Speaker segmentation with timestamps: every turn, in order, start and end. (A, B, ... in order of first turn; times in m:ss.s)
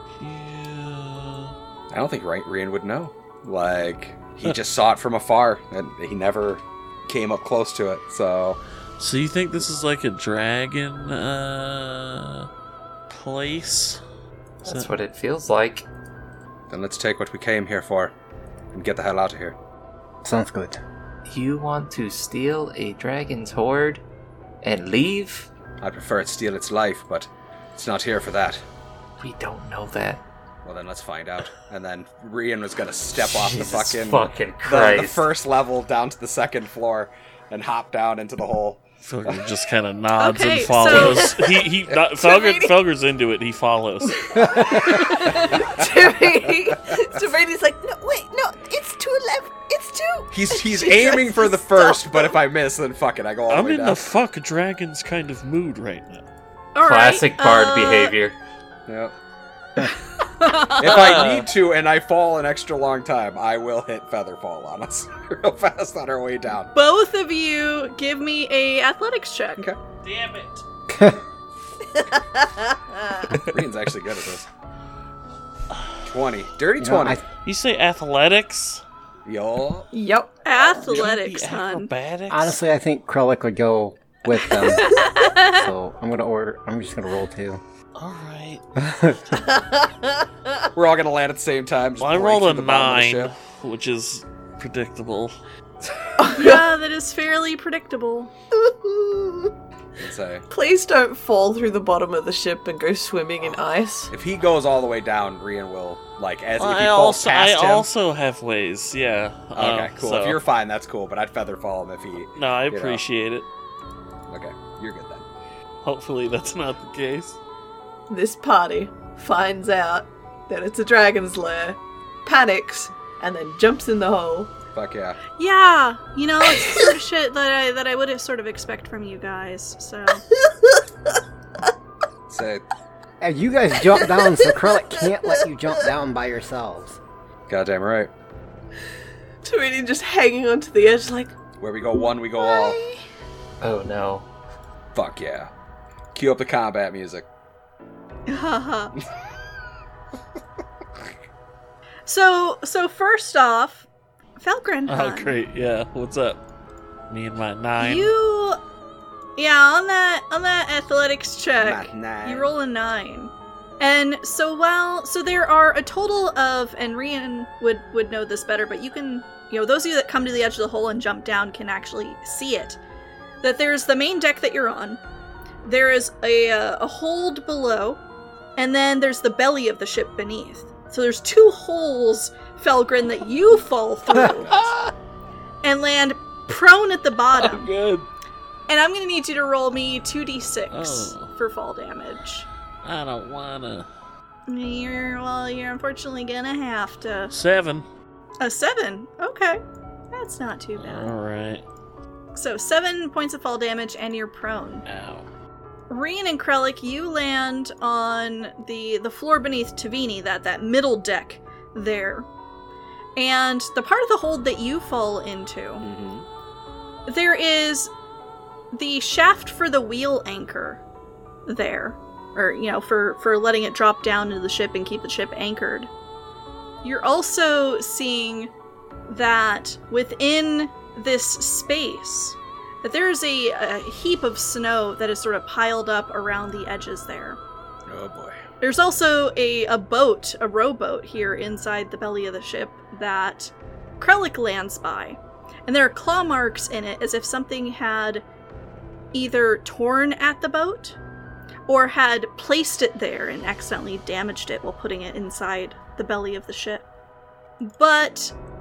0:00.2-0:01.5 A
0:01.9-0:08.6 B
0:09.0-0:12.5 A
0:13.1-0:14.0 A
0:14.6-0:14.9 A
0:14.6-0:15.9 C
0:16.7-0:18.1 B
0:18.7-0:19.6 B
0:20.2-0:20.8 D
0:21.3-0:24.0 C
0:24.6-0:25.5 C
0:25.8-0:28.6 B
0:29.2-0:30.2 C
0:30.6-0:39.4 B
0:33.1-0:35.3 C
0:39.0-0:44.4 A
0:40.2-0:41.4 E
0:42.2-0:42.7 F
0:44.3-0:52.3 F
0:44.5-0:45.9 B
0:50.3-0:54.0 B
0:53.5-0:56.2 A
0:56.7-0:58.1 E
0:56.8-0:58.4 C
0:58.9-0:59.1 B
1:00.1-1:01.3 E
1:00.8-1:06.7 B
1:00.8-1:01.5 A
1:06.7-1:09.6 E
1:10.0-1:10.6 A
1:10.9-1:11.2 D
1:12.0-1:13.0 F
1:13.3-1:14.5 B
1:15.7-1:16.1 A
1:16.1-1:17.2 B
1:16.8-1:17.2 D
1:17.4-1:18.8 A
1:19.2-1:19.9 B
1:19.9-1:20.4 F
1:20.4-1:21.9 E
1:20.9-1:22.6 A
1:22.3-1:27.6 D
1:24.8-1:25.7 E
1:24.9-1:25.2 F
1:28.0-1:28.6 A
1:28.8-1:29.2 D
1:29.6-1:29.9 F
1:30.8-1:33.4 B
1:32.0-1:35.4 A
1:36.2-1:36.7 F
1:36.3-1:38.3 E
1:38.6-1:39.5 F
1:40.0-1:40.5 B
1:40.5-1:44.1 F
1:44.1-1:47.9 B
1:46.6-1:50.4 A
1:49.5-1:53.0 B
1:52.4-1:53.5 A
1:54.3-1:55.3 B
1:55.8-1:57.4 A
1:58.1-2:04.6 F
2:04.7-2:05.2 B
2:05.4-2:10.2 E
2:12.3-2:12.6 B
2:13.2-2:17.0 D
2:17.5-2:18.1 B
2:19.4-2:21.4 F
2:21.6-2:22.8 B
2:22.4-2:23.0 F
2:23.6-2:24.3 C
2:24.9-2:25.5 B
2:26.1-2:27.3 B
2:28.3-2:28.9 E
2:32.1-2:33.9 E
2:34.4-2:35.4 E
2:34.9-2:36.4 A
2:37.1-2:38.1 A
2:37.8-2:38.6 E
2:39.4-2:52.8 E
2:41.6-2:42.5 B
2:53.4-2:55.0 E
2:55.6-2:58.0 E
2:58.6-3:04.6 E
3:04.1-3:04.9 A
3:04.2-3:04.7 B
3:05.6-3:07.7 E
3:07.3-3:08.1 A
3:08.7-3:12.5 E
3:10.7-3:11.3 A
3:12.8-3:13.9 A
3:14.5-3:17.3 E
3:17.3-3:17.8 A
3:18.4-3:19.6 E
3:20.1-3:21.1 E
3:20.8-3:21.6 A
3:22.3-3:24.8 E
3:24.9-3:25.3 A
3:25.9-3:32.3 E
3:33.2-3:35.9 E
3:35.8-3:36.3 B
3:37.1-3:37.9 E
3:38.7-3:40.8 E
3:41.5-3:45.9 E
3:46.8-3:48.5 E
3:49.1-3:57.4 E
3:57.9-3:58.4 B
3:58.6-4:08.2 E
4:09.1-4:11.0 E
4:11.7-4:16.9 E
4:17.6-4:18.3 E